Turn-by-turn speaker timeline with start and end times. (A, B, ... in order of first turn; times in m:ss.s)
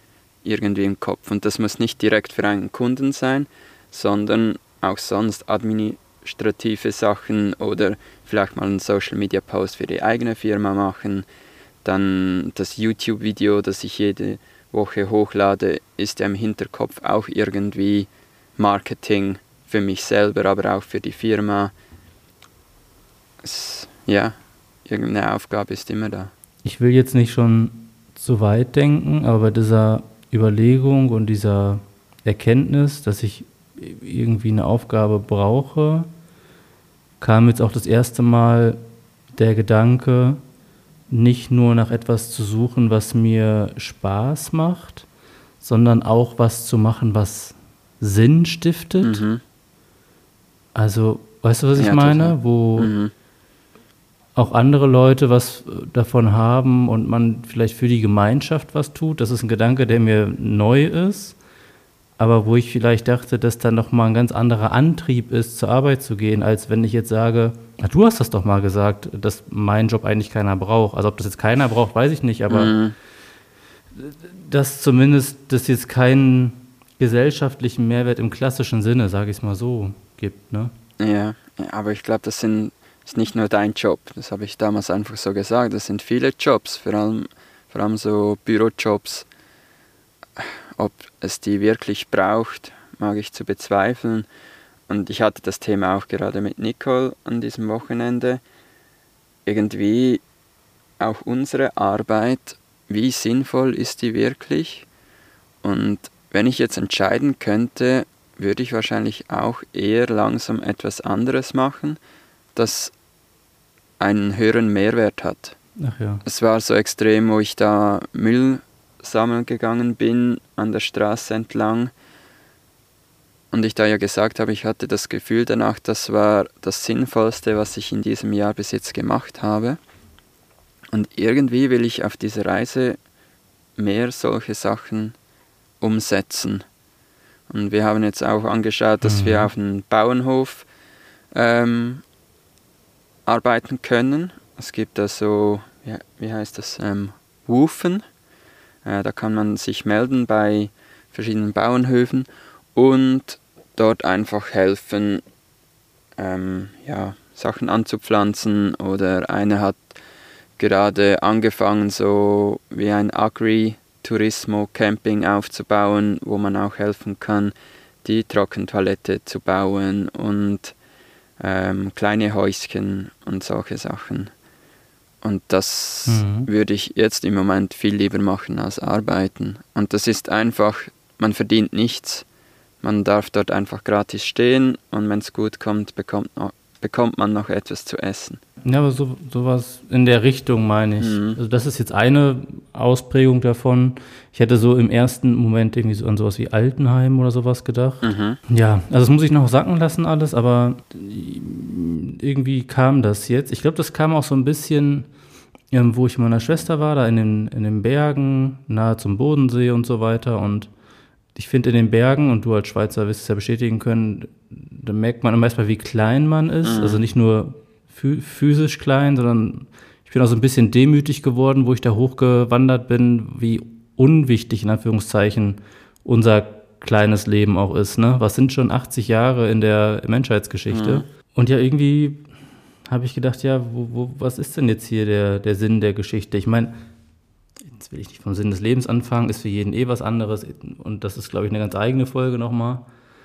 0:00.4-0:11.3 A
0:11.8-0:21.7 A
0:23.4-0:24.4 A
0:24.9-0:26.3 A
0:26.6-0:36.1 B
0:37.2-0:38.8 B
0:39.4-0:40.4 B
0:41.1-0:45.1 B
0:45.6-0:49.2 B
0:49.0-0:49.4 A
0:50.8-0:52.9 B
0:51.8-0:53.1 A
0:54.4-1:01.4 B
1:02.2-1:12.8 B
1:12.5-1:13.0 A
1:14.0-1:20.7 B
1:21.0-1:29.3 A
1:30.4-1:34.3 A
1:34.9-1:38.4 A
1:39.5-1:40.2 A
1:41.0-1:44.9 A
1:45.6-1:52.0 A
1:52.6-1:52.9 A
1:54.0-1:55.6 A
1:55.8-1:56.2 B
1:56.2-2:01.9 A
2:03.5-2:09.8 A
2:10.9-2:13.0 A
2:13.8-2:15.2 A
2:15.8-2:16.6 A
2:17.5-2:20.7 A
2:19.0-2:19.5 B
2:21.3-2:22.0 A
2:23.3-2:28.0 A
2:28.8-2:35.2 A
2:36.2-2:39.9 A
2:40.6-2:50.8 A
2:51.4-2:54.3 A
2:55.2-3:02.2 A
2:56.1-2:56.5 B
3:02.8-3:08.4 A
3:08.6-3:25.1 B
3:11.0-3:11.4 A
3:18.0-3:18.4 A
3:25.7-3:30.7 B
3:31.4-3:52.2 B
3:36.6-3:37.0 A
3:50.7-3:51.0 A
3:52.9-3:56.8 B
3:57.7-4:02.9 B